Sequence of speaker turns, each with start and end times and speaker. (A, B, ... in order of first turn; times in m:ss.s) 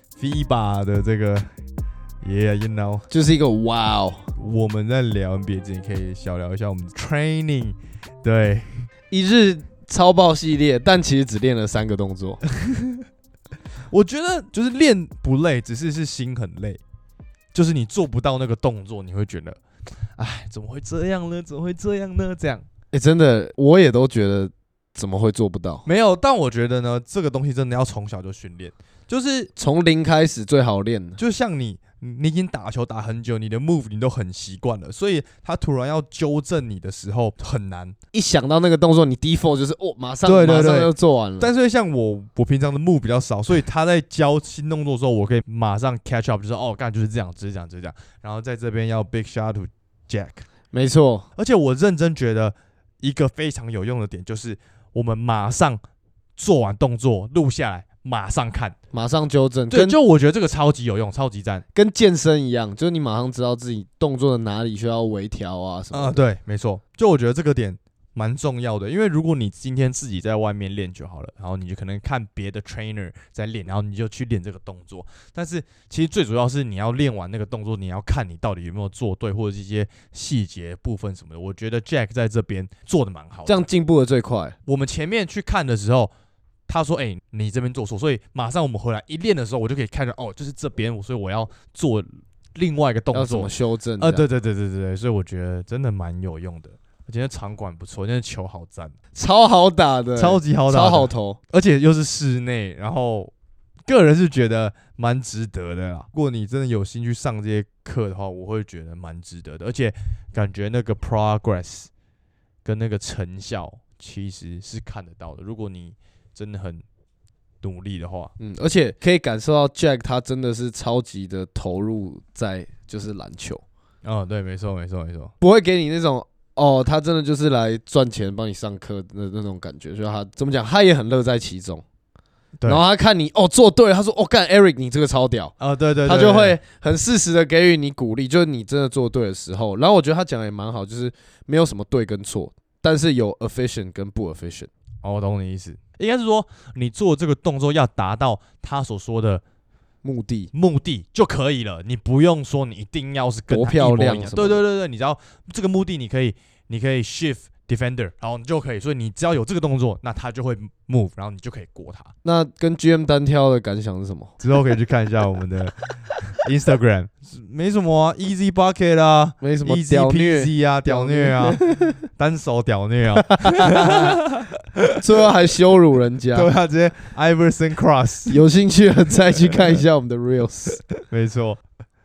0:00.2-0:01.5 A
0:02.2-0:03.1 A
0:03.1-0:04.2 B
0:04.4-0:08.9 A
0:09.1-0:12.4 B
0:12.6-0:13.0 A
0:13.9-0:16.8 A
0:17.5-0:19.6 A
0:20.2-0:22.6 A
0:22.9-0:25.8 B
0:25.8-0:29.5 A
0:29.6-0:31.2 B
0:31.2-0:37.9 A
0:38.1-0:41.5 B
0:40.2-0:50.4 A
0:50.7-0:51.3 B
0:51.4-0:55.8 A
0:56.4-0:58.8 A
0:58.9-1:00.0 B
0:59.7-1:01.6 A
1:01.7-1:06.2 B
1:05.9-1:23.6 A
1:23.4-1:24.6 B
1:24.6-1:26.1 A
1:26.7-1:38.9 A
1:33.1-1:34.3 B
1:39.1-1:41.4 B
1:40.2-1:43.3 A
1:43.8-1:51.9 A
1:52.6-1:56.8 A
1:57.6-1:58.3 A
1:58.4-2:03.6 B
2:04.0-2:05.3 A
2:05.4-2:11.8 B
2:12.6-2:12.8 A
2:12.6-2:24.7 B
2:15.6-2:16.6 A
2:25.0-2:29.4 A
2:30.0-2:30.5 B
2:30.5-2:42.1 A
2:33.5-2:34.6 B
2:42.2-2:44.4 B
2:44.4-2:55.0 A
2:49.4-2:52.0 B
2:53.2-2:54.2 B
2:55.0-2:56.5 B
2:56.3-2:58.4 A
2:58.3-3:00.8 B
3:01.0-3:01.6 A